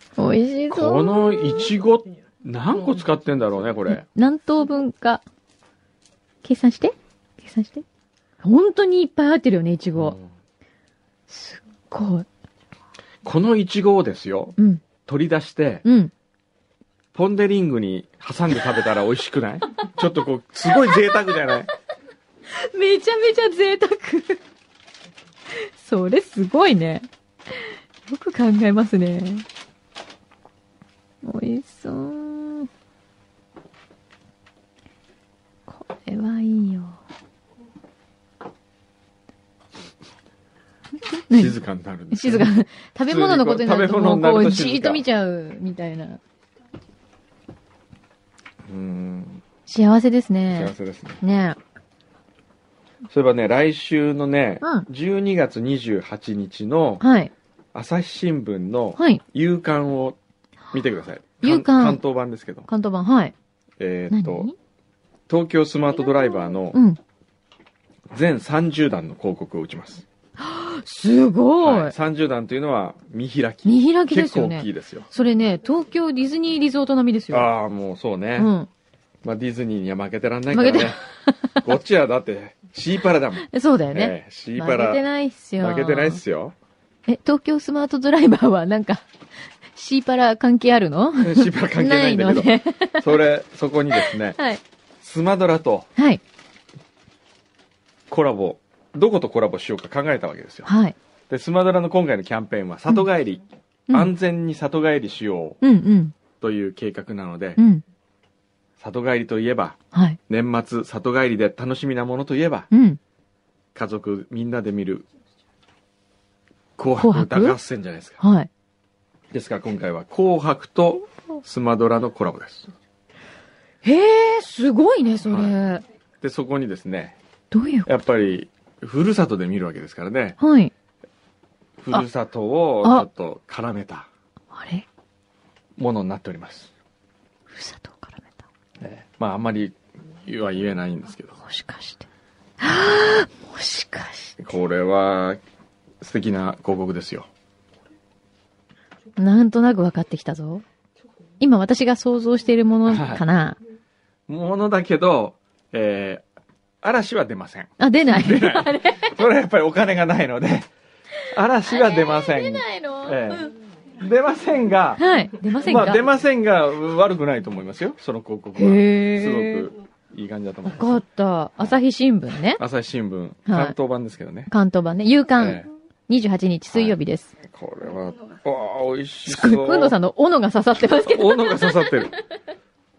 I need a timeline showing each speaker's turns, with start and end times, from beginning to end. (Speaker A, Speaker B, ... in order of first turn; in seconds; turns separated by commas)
Speaker A: 0.2-1.7, Speaker B: 0.7-4.0, Speaker A: 3.9-5.2, Speaker A: 6.4-7.8, Speaker A: 8.4-10.2, Speaker B: 9.9-10.3, Speaker A: 11.3-12.3, Speaker B: 13.2-15.8, Speaker A: 14.6-14.8, Speaker A: 15.8-16.1, Speaker B: 17.1-21.7, Speaker A: 20.7-21.6, Speaker A: 22.5-24.4, Speaker A: 25.5-29.4, Speaker A: 31.2-32.7, Speaker A: 35.7-37.0, Speaker A: 41.3-41.6, Speaker B: 41.3-42.5, Speaker A: 42.1-46.2, Speaker B: 43.1-45.0, Speaker B: 48.6-49.4, Speaker A: 49.7-51.6, Speaker B: 50.5-51.2, Speaker B: 53.1-57.0, Speaker A: 54.6-54.9, Speaker A: 57.0-57.3, Speaker B: 57.7-60.2, Speaker A: 59.0-59.2, Speaker B: 60.7-62.7, Speaker A: 61.4-62.0, Speaker A: 62.7-63.3, Speaker B: 63.8-64.5, Speaker A: 64.1-64.6, Speaker B: 65.3-66.8, Speaker A: 66.7-67.0, Speaker B: 68.1-70.0, Speaker A: 70.4-71.9, Speaker B: 71.6-75.1, Speaker A: 73.7-77.5, Speaker B: 77.3-78.5, Speaker A: 78.4-78.7, Speaker B: 79.2-81.0, Speaker A: 80.5-81.6, Speaker B: 81.6-85.0, Speaker A: 83.5-86.2, Speaker B: 85.6-86.5, Speaker A: 87.1-89.1, Speaker A: 89.7-93.2, Speaker B: 91.2-94.4, Speaker A: 93.9-94.6, Speaker B: 95.0-95.9, Speaker B: 98.1-100.7, Speaker A: 100.7-101.0, Speaker B: 101.3-105.6, Speaker A: 105.6-106.1, Speaker B: 106.4-107.6, Speaker A: 107.6-107.8, Speaker B: 108.8-109.8, Speaker A: 109.9-110.2, Speaker B: 110.3-112.7, Speaker A: 112.7-113.0, Speaker B: 113.7-115.1, Speaker B: 116.8-118.2, Speaker A: 117.0-117.6, Speaker A: 118.2-118.5, Speaker B: 119.3-122.7, Speaker A: 123.8-125.8, Speaker B: 125.3-125.5, Speaker B: 126.2-127.2, Speaker A: 127.5-127.9, Speaker B: 127.9-130.4, Speaker A: 130.4-130.7, Speaker B: 131.8-134.1, Speaker A: 134.5-134.9, Speaker B: 135.8-136.7, Speaker A: 137.5-138.4, Speaker B: 138.8-141.4, Speaker A: 141.4-142.1, Speaker A: 142.6-144.4, Speaker B: 144.4-145.4, Speaker B: 146.0-147.3, Speaker A: 149.2-150.6, Speaker A: 151.4-153.6, Speaker B: 152.9-153.2, Speaker B: 154.3-156.2, Speaker B: 156.8-160.7, Speaker A: 157.8-159.2, Speaker B: 161.3-163.5, Speaker A: 161.6-163.5, Speaker B: 164.0-171.0, Speaker A: 165.0-166.0, Speaker A: 168.6-169.7, Speaker A: 170.7-172.6, Speaker B: 172.6-174.5, Speaker A: 173.5-173.8, Speaker A: 174.5-177.3, Speaker B: 175.4-175.7, Speaker B: 176.7-179.9, Speaker A: 179.3-181.9, Speaker B: 181.0-182.1